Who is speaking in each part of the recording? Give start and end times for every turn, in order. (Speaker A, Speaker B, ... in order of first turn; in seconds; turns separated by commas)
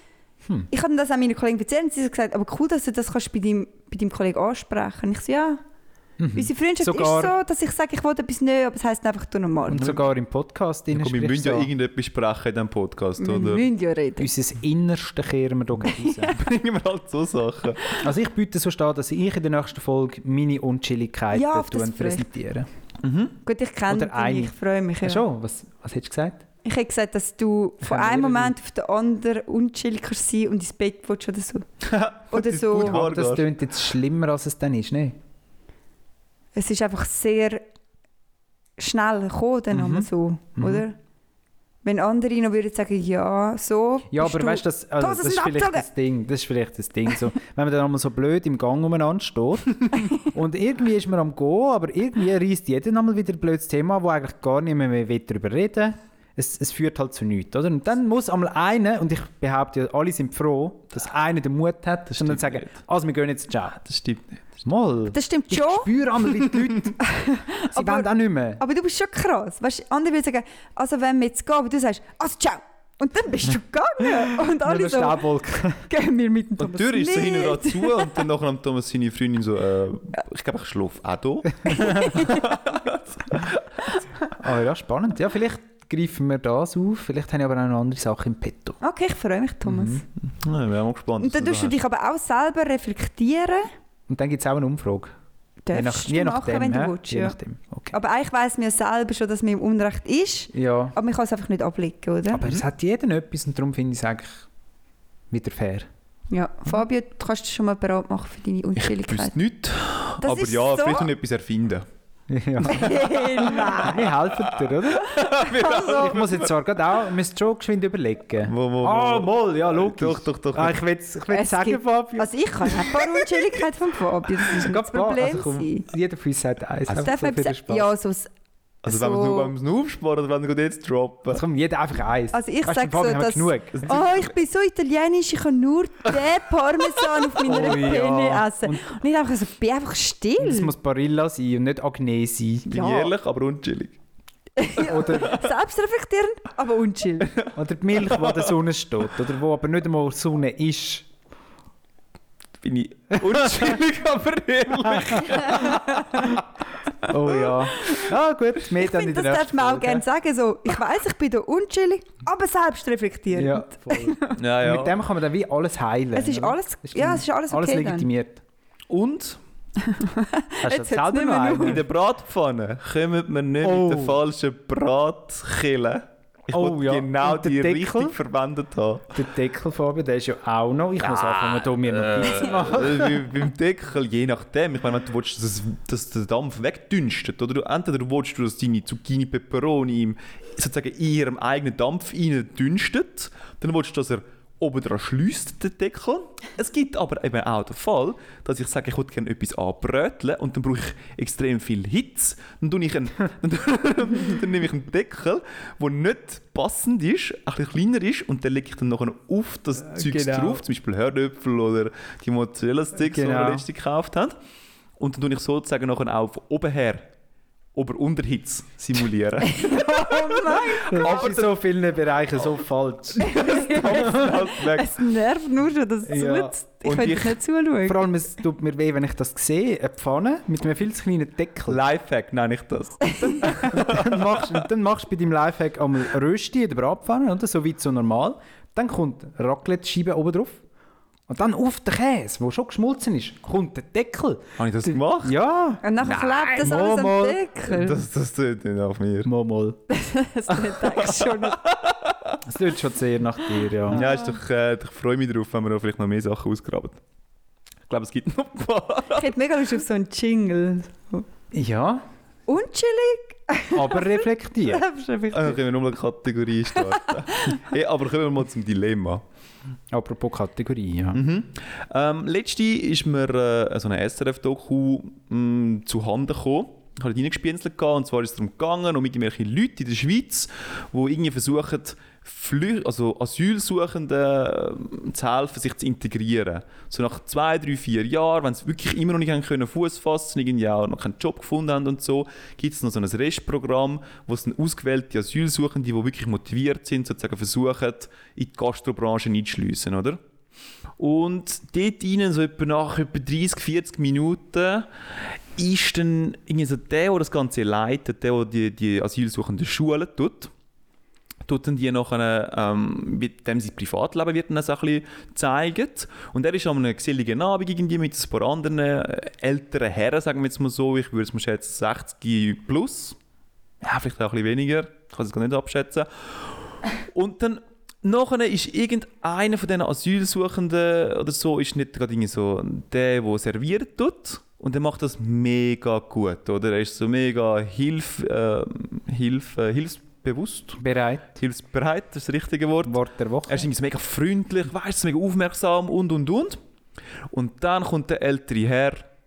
Speaker A: 0.7-5.6, Speaker B: 6.2-7.3, Speaker A: 6.4-9.9, Speaker B: 9.7-11.7, Speaker C: 10.9-13.7, Speaker A: 13.2-14.3, Speaker B: 14.2-16.4, Speaker A: 15.9-16.3, Speaker C: 16.3-18.0, Speaker B: 17.9-22.7, Speaker A: 21.3-22.3, Speaker C: 23.0-23.4, Speaker A: 23.4-25.2, Speaker B: 23.9-26.4, Speaker A: 26.6-31.6, Speaker B: 27.8-28.5, Speaker C: 31.8-33.5, Speaker A: 32.3-33.0, Speaker B: 32.8-35.2, Speaker A: 36.5-37.6, Speaker A: 38.8-41.0, Speaker B: 39.7-40.8, Speaker A: 41.8-45.9, Speaker B: 44.1-63.8, Speaker C: 62.1-62.7, Speaker C: 63.8-64.4, Speaker B: 64.6-67.0, Speaker A: 65.1-65.9, Speaker A: 67.0-75.2, Speaker B: 67.7-68.6, Speaker B: 74.6-75.8, Speaker A: 75.9-78.2, Speaker C: 76.6-83.9, Speaker A: 81.7-82.5, Speaker B: 84.3-88.8, Speaker A: 88.8-90.0, Speaker B: 89.6-90.0, Speaker C: 90.2-91.8, Speaker A: 91.2-93.7, Speaker B: 94.1-95.1, Speaker A: 95.7-97.4, Speaker B: 95.7-97.9, Speaker A: 97.9-102.4, Speaker B: 100.5-101.0, Speaker B: 102.3-104.4, Speaker B: 105.3-105.9, Speaker A: 106.3-109.3, Speaker C: 108.8-111.8, Speaker A: 110.2-111.1, Speaker B: 112.3-113.0, Speaker A: 112.6-114.1, Speaker C: 113.1-113.8, Speaker B: 113.8-115.2, Speaker C: 114.4-116.5, Speaker A: 115.4-116.1, Speaker B: 115.7-122.9, Speaker C: 118.4-120.8, Speaker A: 121.3-125.8, Speaker B: 124.5-127.9, Speaker A: 126.9-128.3, Speaker C: 128.8-131.4, Speaker A: 128.8-129.5, Speaker B: 131.3-133.9, Speaker A: 132.3-140.7, Speaker C: 133.8-134.2, Speaker B: 137.4-138.8, Speaker B: 140.4-142.8, Speaker C: 142.7-144.0, Speaker A: 142.7-143.1, Speaker A: 144.6-147.3, Speaker B: 144.8-145.4, Speaker B: 147.5-151.1, Speaker C: 148.1-148.5, Speaker C: 152.6-156.4, Speaker B: 154.9-155.2, Speaker A: 155.5-156.2, Speaker C: 157.1-157.5, Speaker B: 157.1-160.0, Speaker A: 158.8-164.4, Speaker B: 163.3-168.4, Speaker C: 164.4-165.0, Speaker A: 166.1-168.1, Speaker C: 168.9-169.4, Speaker A: 169.8-171.8, Speaker B: 170.6-171.8, Speaker C: 171.6-179.1, Speaker B: 173.6-174.2, Speaker B: 176.5-178.1, Speaker B: 179.1-183.2, Speaker C: 182.1-214.3, Speaker B: 209.9-210.6, Speaker B: 213.0-213.7, Speaker C: 215.0-217.1, Speaker C: 217.8-221.6, Speaker A: 219.4-221.2, Speaker B: 220.9-224.3, Speaker C: 223.2-224.9, Speaker A: 223.2-228.0, Speaker B: 226.1-226.5, Speaker C: 226.8-227.4, Speaker B: 227.8-231.8, Speaker C: 231.7-234.5, Speaker A: 233.1-233.5, Speaker B: 233.4-240.6, Speaker B: 241.3-247.4, Speaker C: 244.6-245.4, Speaker A: 245.8-248.0, Speaker C: 247.7-249.3, Speaker B: 249.2-249.8, Speaker A: 249.9-251.6, Speaker C: 250.8-252.4, Speaker B: 252.4-254.1, Speaker C: 253.9-257.0, Speaker A: 253.9-254.3, Speaker C: 257.9-259.3, Speaker A: 259.1-261.2, Speaker B: 261.5-262.0, Speaker A: 262.5-265.6, Speaker B: 263.7-264.8, Speaker C: 265.3-269.2, Speaker B: 269.9-271.2, Speaker C: 271.1-300.2, Speaker C: 301.0-304.9, Speaker C: 305.6-310.5, Speaker C: 311.5-323.2, Speaker C: 323.8-340.8, Speaker B: 340.8-341.2, Speaker C: 341.4-346.6, Speaker B: 342.8-343.7, Speaker C: 347.3-349.1